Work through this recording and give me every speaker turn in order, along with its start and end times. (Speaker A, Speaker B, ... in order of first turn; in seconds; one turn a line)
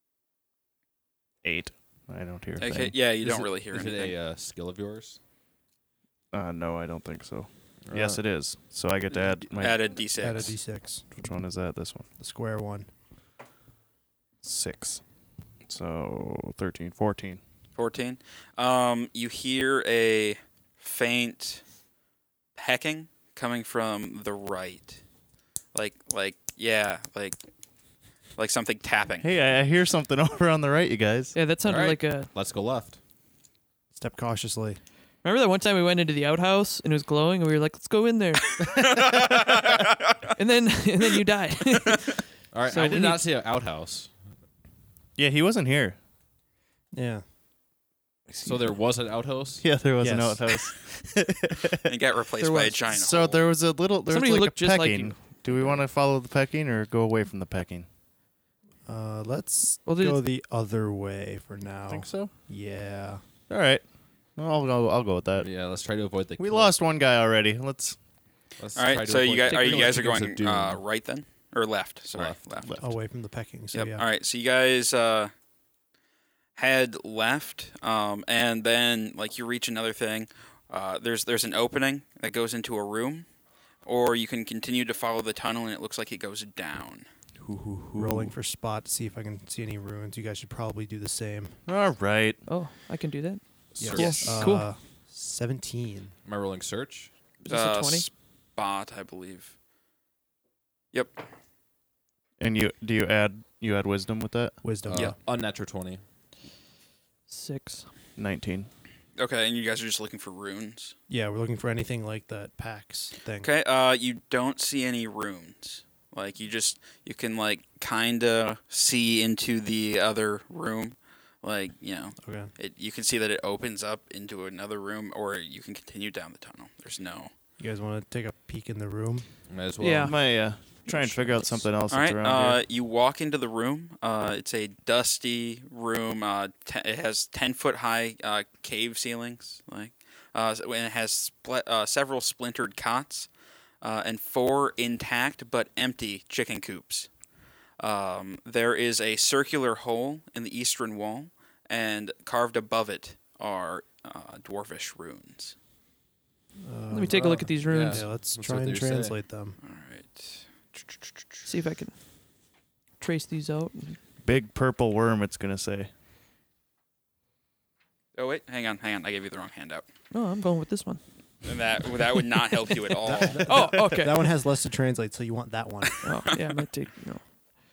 Speaker A: 1.4-3.0
Speaker B: 2.6-4.2
Speaker C: 3.3-5.2
Speaker A: 6.3-9.9
Speaker C: 7.9-8.2
Speaker B: 9.6-10.6
Speaker D: 10.2-11.1
Speaker A: 11.1-12.1
Speaker D: 12.2-12.9
Speaker A: 14.4-15.0
Speaker A: 15.7-17.4
Speaker B: 17.8-21.6
Speaker B: 22.6-25.0
Speaker B: 25.7-27.4
Speaker B: 28.4-29.3
Speaker A: 29.2-31.3
Speaker E: 31.3-32.3
Speaker C: 31.6-33.0
Speaker D: 33.9-34.8
Speaker E: 35.2-38.6
Speaker B: 38.6-40.2
Speaker A: 38.9-39.3
Speaker E: 40.4-43.2
Speaker C: 42.5-44.1
Speaker A: 45.2-46.0
Speaker D: 46.9-47.2
Speaker E: 48.3-48.7
Speaker C: 48.4-49.7
Speaker A: 49.6-51.9
Speaker D: 50.0-50.4
Speaker B: 51.9-53.5
Speaker E: 52.4-52.8
Speaker A: 52.9-57.9
Speaker E: 54.1-55.8
Speaker D: 58.9-63.2
Speaker E: 59.9-60.2
Speaker A: 61.9-62.3
Speaker A: 63.5-63.8
Speaker A: 64.4-65.5
Speaker C: 65.4-66.8
Speaker A: 66.4-68.0
Speaker C: 68.6-70.8
Speaker B: 68.8-72.7
Speaker E: 69.5-70.2
Speaker A: 72.6-72.9
Speaker D: 72.8-74.0
Speaker B: 73.7-75.3
Speaker B: 76.6-83.3
Speaker B: 83.8-87.1
Speaker A: 87.4-88.3
Speaker D: 88.0-91.6
Speaker A: 91.7-92.4
Speaker E: 92.5-93.4
Speaker C: 93.7-94.4
Speaker D: 93.8-96.2
Speaker E: 93.9-94.7
Speaker A: 94.0-94.3
Speaker C: 96.3-97.1
Speaker E: 97.4-98.1
Speaker B: 97.5-99.5
Speaker B: 100.9-101.2
Speaker A: 102.4-104.6
Speaker D: 104.6-105.2
Speaker C: 104.9-106.0
Speaker E: 107.3-107.9
Speaker A: 108.2-108.7
Speaker B: 109.2-111.0
Speaker D: 111.1-113.5
Speaker B: 113.4-127.3
Speaker D: 122.2-122.5
Speaker D: 127.6-129.3
Speaker C: 129.5-130.2
Speaker E: 129.8-131.6
Speaker A: 130.0-132.6
Speaker B: 131.9-143.3
Speaker B: 143.8-147.1
Speaker B: 147.8-155.6
Speaker D: 156.7-159.6
Speaker E: 156.9-158.1
Speaker C: 157.6-159.2
Speaker B: 159.6-161.5
Speaker E: 161.5-162.0
Speaker E: 163.0-164.0
Speaker A: 164.2-165.9
Speaker B: 168.2-169.9
Speaker E: 170.1-171.0
Speaker B: 171.4-173.5
Speaker D: 173.1-176.1
Speaker E: 173.4-174.4
Speaker E: 176.0-177.3